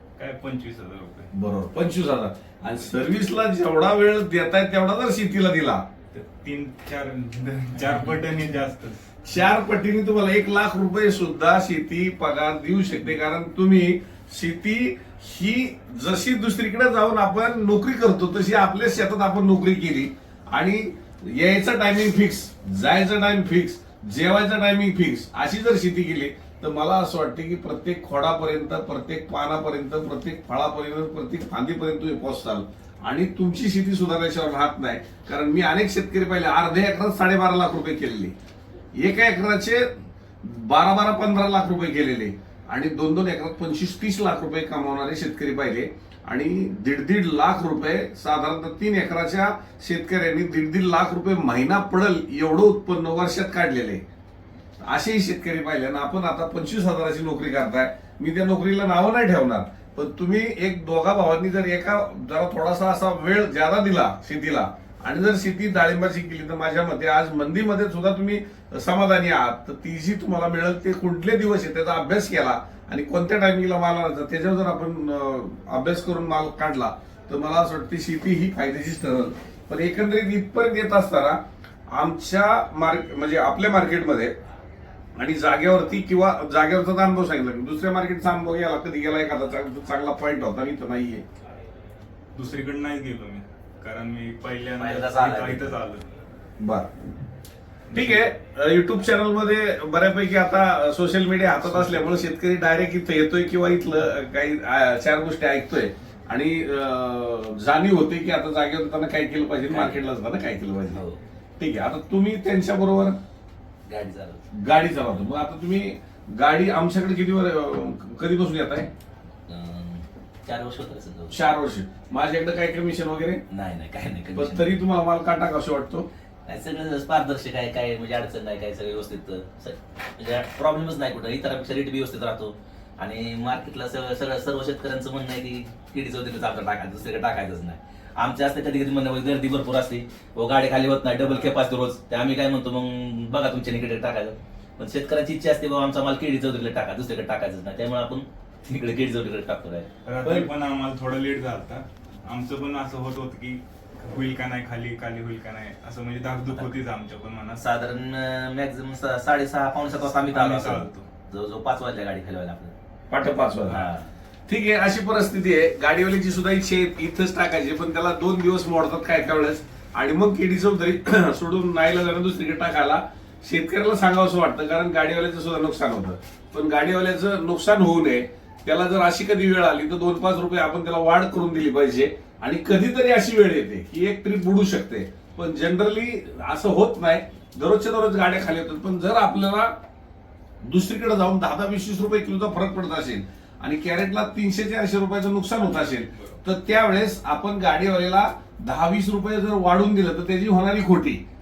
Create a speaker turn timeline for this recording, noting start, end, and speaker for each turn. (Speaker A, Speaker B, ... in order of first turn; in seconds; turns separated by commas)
Speaker A: 0.2-1.3, Speaker B: 1.3-5.8, Speaker A: 6.1-9.0, Speaker B: 9.2-38.4, Speaker B: 39.0-39.9, Speaker B: 40.4-54.0, Speaker B: 54.8-81.4, Speaker B: 81.9-84.3, Speaker B: 85.2-91.2, Speaker A: 92.3-96.1, Speaker C: 94.8-95.8, Speaker B: 96.6-96.9, Speaker A: 97.9-98.2, Speaker B: 97.9-111.0, Speaker A: 101.6-102.1, Speaker C: 109.7-110.1, Speaker C: 110.9-111.2, Speaker B: 111.6-113.2, Speaker C: 113.9-114.4, Speaker B: 114.5-118.9, Speaker C: 119.5-121.5, Speaker B: 121.3-123.4, Speaker C: 123.5-124.8, Speaker B: 124.3-126.1, Speaker C: 126.5-150.5, Speaker A: 141.2-141.6, Speaker A: 150.0-157.6, Speaker C: 156.5-156.8, Speaker C: 157.6-162.8, Speaker A: 160.2-161.1, Speaker B: 163.1-163.9, Speaker C: 163.7-164.1, Speaker B: 164.5-189.7, Speaker B: 190.6-201.2